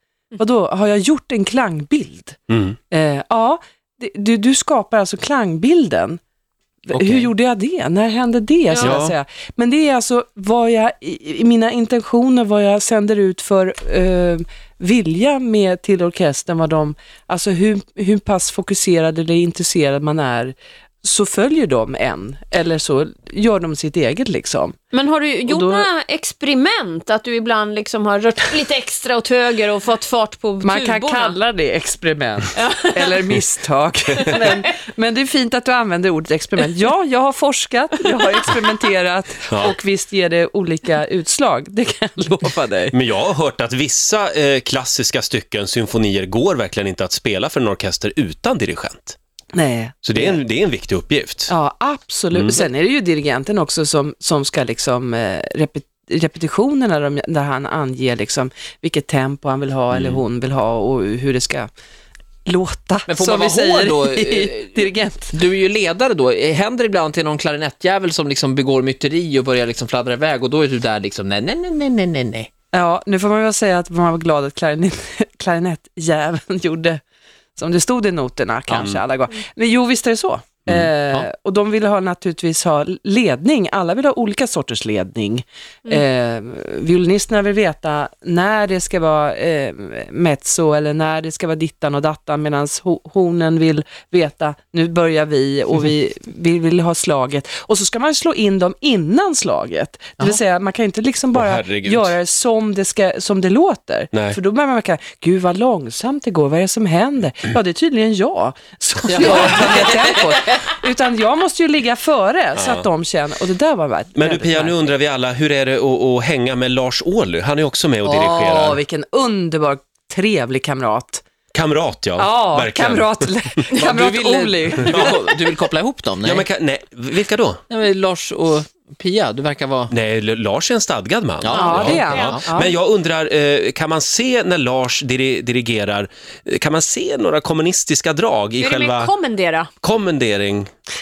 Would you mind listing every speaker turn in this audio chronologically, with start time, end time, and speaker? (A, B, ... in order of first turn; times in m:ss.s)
0:00.4-0:02.4 A
0:02.5-0:02.8 B
0:02.9-0:06.2 A
0:06.8-0:24.8 A
0:06.9-0:07.2 B
0:08.7-0:09.0 C
0:08.8-0:09.1 B
0:24.9-0:31.4 C
0:25.5-0:25.9 A
0:30.6-0:42.9 A
0:32.6-0:33.3 C
0:34.2-0:34.6 C
0:39.5-0:39.7 B
0:42.9-0:49.2 B
0:49.5-0:50.4 A
0:50.0-0:51.5 B
0:51.5-1:01.7 A
0:52.3-0:52.6 B
0:59.9-1:00.2 B
1:02.4-1:05.4 A
1:03.1-1:12.5 D
1:12.7-1:17.0 A
1:17.6-1:54.7 A
1:18.7-1:19.0 D
1:20.6-1:20.9 B
1:41.3-1:42.1 B
1:44.1-1:44.4 B
1:49.0-1:50.8 D
1:49.2-1:49.6 B
1:52.5-1:52.9 B
1:54.2-1:58.8 B
1:58.0-1:58.6 D
1:58.3-2:01.2 A
2:01.5-2:03.8 B
2:02.2-2:05.3 A
2:03.7-2:06.5 D
2:04.8-2:05.3 B
2:06.2-2:07.6 B
2:07.7-2:09.9 D
2:09.9-2:19.1 B
2:11.4-2:12.5 D
2:11.5-2:12.4 C
2:11.5-2:12.7 A
2:18.6-2:19.7 C
2:19.8-2:20.7 B